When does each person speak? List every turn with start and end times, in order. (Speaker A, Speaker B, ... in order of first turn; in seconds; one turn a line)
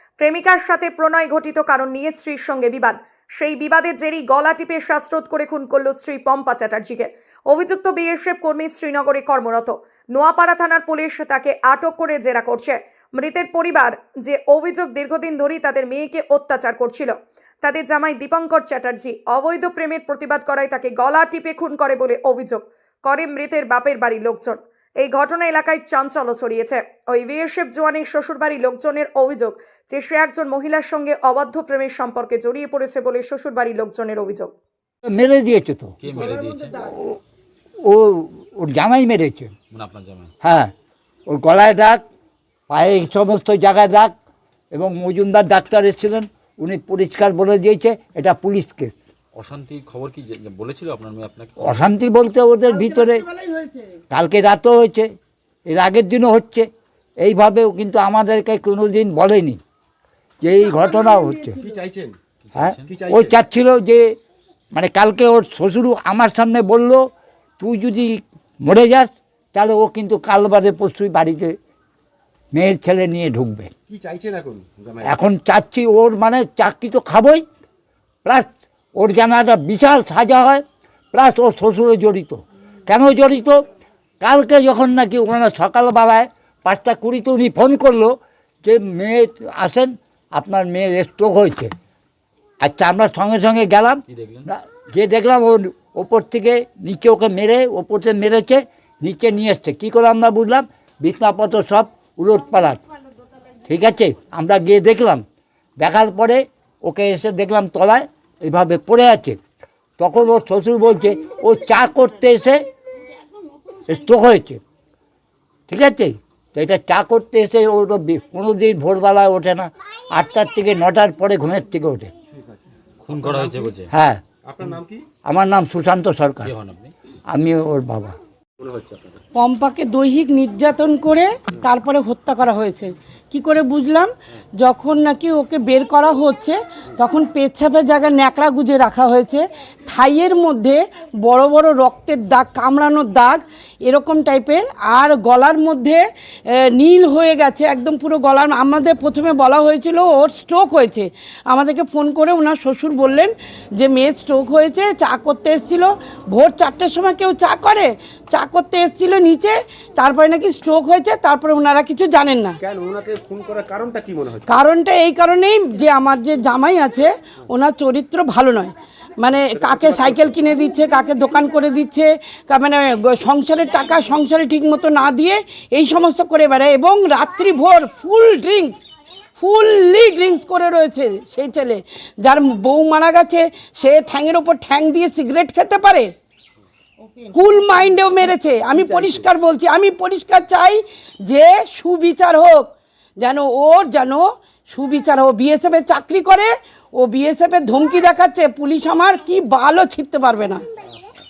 Speaker A: 0.2-34.5
Speaker B: 35.1-36.0
Speaker C: 36.0-36.8
Speaker D: 36.1-36.5
Speaker B: 36.9-37.2
Speaker B: 37.8-39.5
Speaker C: 39.7-40.3
Speaker B: 40.4-40.7
Speaker B: 41.3-42.0
Speaker B: 42.7-44.1
Speaker B: 44.7-49.0
Speaker C: 49.3-51.9
Speaker B: 51.6-53.2
Speaker E: 52.6-54.0
Speaker B: 54.1-55.1
Speaker B: 55.7-56.6
Speaker B: 57.2-59.6
Speaker B: 60.4-61.5
Speaker E: 60.5-61.8
Speaker D: 61.6-62.2
Speaker C: 62.4-63.0
Speaker B: 62.5-64.1
Speaker D: 62.8-63.3
Speaker B: 64.7-67.0
Speaker B: 67.6-71.5
Speaker B: 72.5-73.7
Speaker D: 73.9-75.2
Speaker B: 75.0-77.4
Speaker B: 78.2-83.6
Speaker B: 84.2-91.7
Speaker B: 92.6-102.8
Speaker C: 94.1-94.5
Speaker B: 103.7-105.2
Speaker B: 105.8-109.4
Speaker B: 110.0-112.6
Speaker B: 113.9-114.6
Speaker B: 115.7-122.1
Speaker D: 122.3-123.7
Speaker C: 123.0-123.9
Speaker B: 123.9-124.2
Speaker D: 124.4-125.0
Speaker B: 125.2-126.5
Speaker C: 126.4-126.9
Speaker B: 127.3-128.1
Speaker D: 128.6-129.2
Speaker E: 129.3-162.6
Speaker D: 162.6-164.5
Speaker E: 164.5-178.8
Speaker D: 169.4-170.4
Speaker E: 179.4-186.1
Speaker E: 187.3-200.6
Speaker D: 188.7-189.3